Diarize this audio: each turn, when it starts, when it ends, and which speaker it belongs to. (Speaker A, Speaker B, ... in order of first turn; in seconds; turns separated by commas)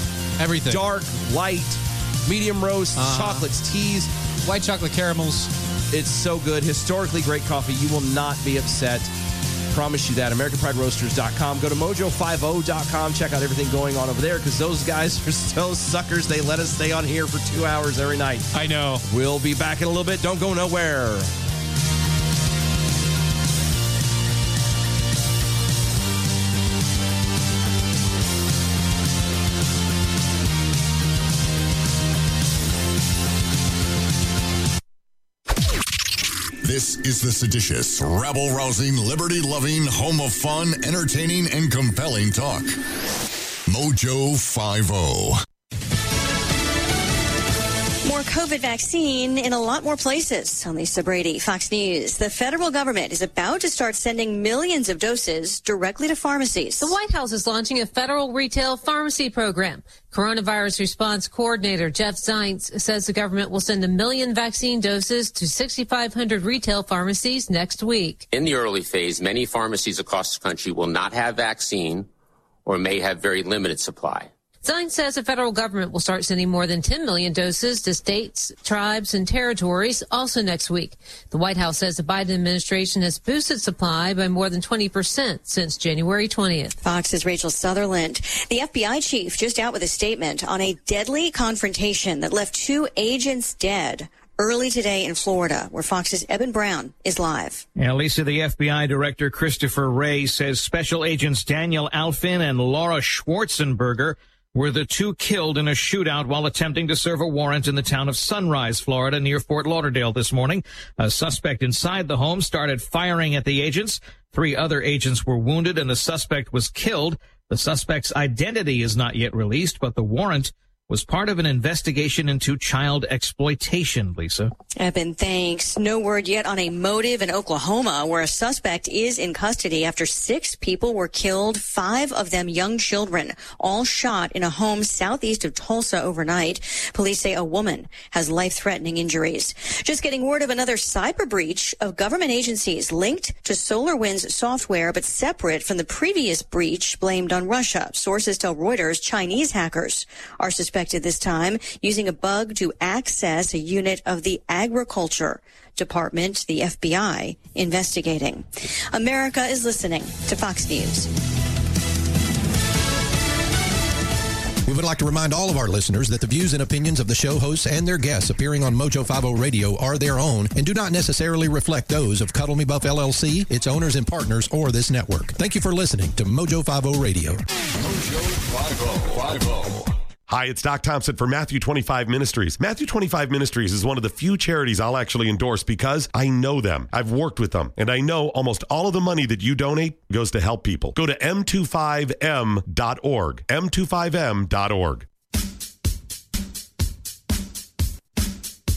Speaker A: 0.4-0.8, Speaker B: 0.7-4.1, Speaker A: 3.0-3.5, Speaker A: 4.4-5.5, Speaker B: 5.9-9.1, Speaker B: 9.7-18.5, Speaker A: 18.5-19.1, Speaker B: 19.0-21.3, Speaker C: 36.6-42.8, Speaker C: 43.7-45.4, Speaker D: 48.0-57.0, Speaker E: 56.8-68.5, Speaker F: 68.4-72.0, Speaker F: 72.7-74.3, Speaker E: 74.6-86.8, Speaker D: 86.8-97.7, Speaker G: 97.8-124.5, Speaker D: 124.8-161.1, Speaker H: 164.7-177.4, Speaker C: 177.8-179.9, Speaker I: 180.3-195.1